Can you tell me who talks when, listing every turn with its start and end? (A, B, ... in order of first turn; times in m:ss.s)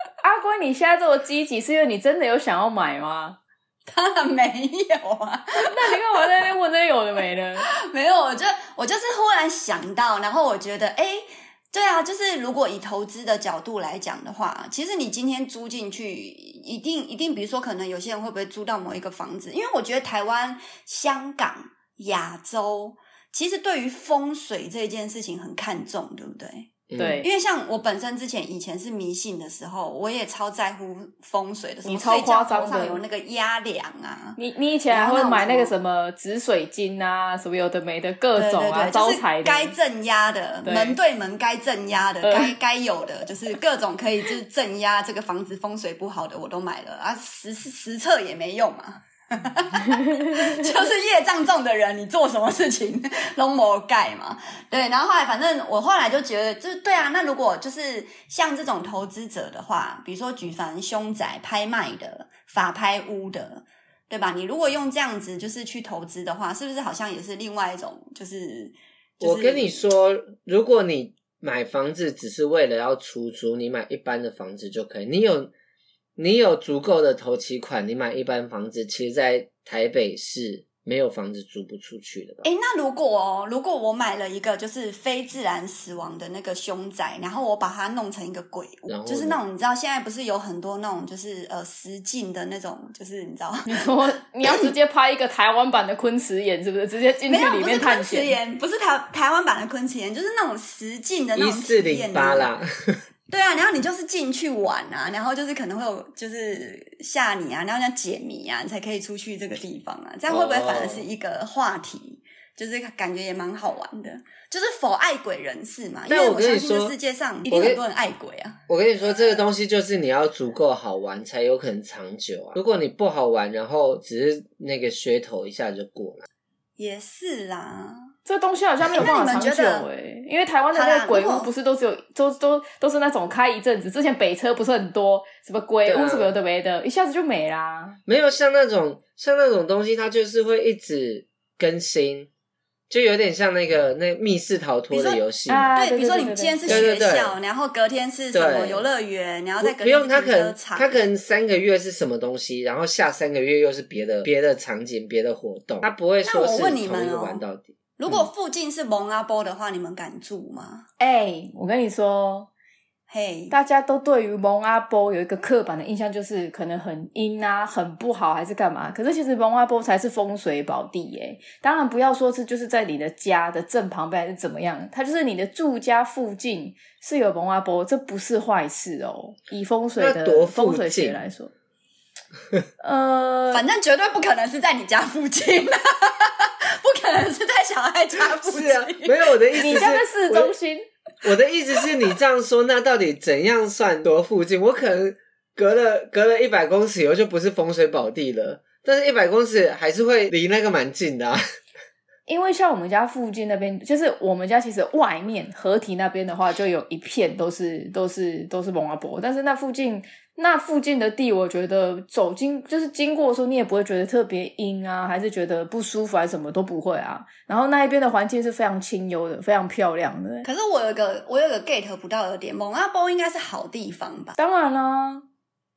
0:00.2-0:03.4 A
0:03.9-0:06.0 B
0:05.6-0:07.7 A
0:07.8-0:34.4 B
0:26.9-0:27.2 C
0:27.0-0:27.3 A
0:31.8-0:33.0 A
0:34.4-0:39.7 A
0:34.9-0:35.7 B
0:38.3-1:09.8 B
0:40.6-0:41.0 A
0:42.2-0:42.5 A
0:49.8-0:50.6 A
1:09.2-1:15.5 C
1:16.2-1:22.4 C
1:22.4-1:33.9 B
1:28.9-1:29.4 C
1:33.7-1:38.4 A
1:34.4-1:34.7 B
1:37.3-1:42.5 B
1:41.4-1:43.0 C
1:43.3-1:58.6 B
1:50.3-1:51.1 C
1:56.1-1:56.9 C
1:57.5-1:57.8 C
1:58.7-2:06.3 C
2:06.8-2:08.1 B
2:08.2-2:18.0 A
2:08.9-2:09.9 B
2:10.7-2:11.5 B
2:15.8-2:16.3 C
2:18.1-2:22.3 C
2:22.9-2:25.7 C
2:24.9-2:25.2 B
2:25.5-2:26.8 A
2:25.7-2:31.0 B
2:26.7-2:27.4 C
2:28.3-2:28.8 C
2:29.6-2:38.3 C
2:36.2-2:37.4 B
2:38.0-2:40.9 B
2:41.0-2:42.5 A
2:43.1-2:43.5 B
2:43.5-3:01.5 A
3:00.0-3:01.2 C
3:02.8-3:03.6 A
3:03.5-3:09.9 B
3:08.4-3:10.5 C
3:09.5-3:10.8 A
3:11.2-3:21.4 C
3:22.3-3:40.5 A
3:40.4-3:44.4 B
3:44.4-3:45.2 A